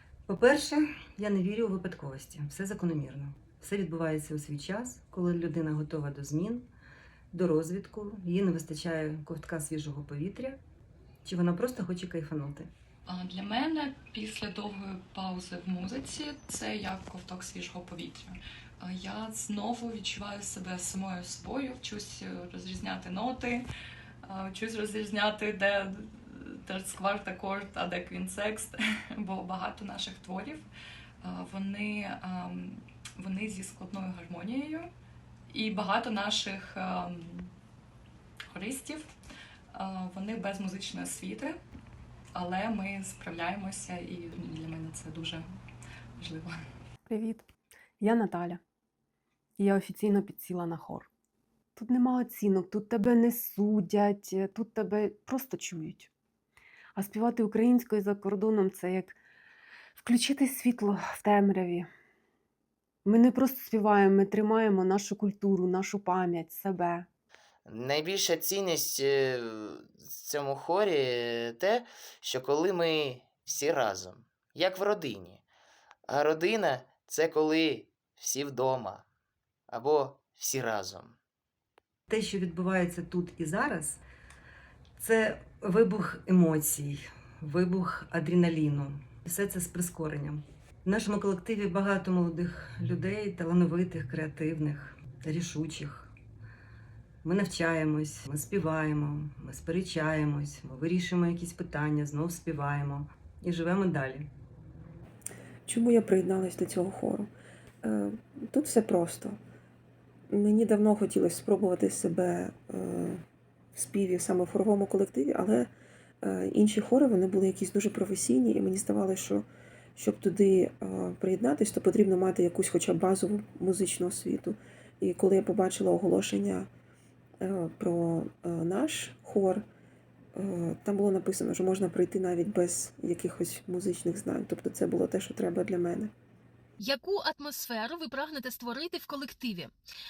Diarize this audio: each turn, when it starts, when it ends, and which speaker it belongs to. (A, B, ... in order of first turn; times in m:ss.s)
0:00.3-0:06.7 A
0:07.3-0:10.6 A
0:11.2-0:12.7 A
0:13.1-0:23.6 B
0:24.2-0:30.7 B
0:31.2-0:34.9 B
0:35.5-0:37.5 B
0:38.5-0:39.1 B
0:39.7-0:41.6 B
0:42.3-0:45.5 B
0:46.2-0:46.6 B
0:47.1-0:47.5 C
0:48.0-0:48.6 C
0:49.6-0:51.1 C
0:51.8-0:56.1 C
0:57.0-0:59.2 C
1:00.0-1:01.9 C
1:03.0-1:07.1 C
1:07.7-1:15.4 D
1:16.1-1:19.0 D
1:19.7-1:21.2 D
1:22.1-1:24.0 A
1:25.0-1:36.1 A
1:37.2-1:44.3 A
1:45.7-1:47.3 E
1:47.8-1:49.4 E
1:50.3-1:53.2 E
1:53.7-1:55.7 E
1:56.2-2:06.7 E
2:07.4-2:09.6 E
2:10.4-2:16.1 E
2:16.8-2:19.7 F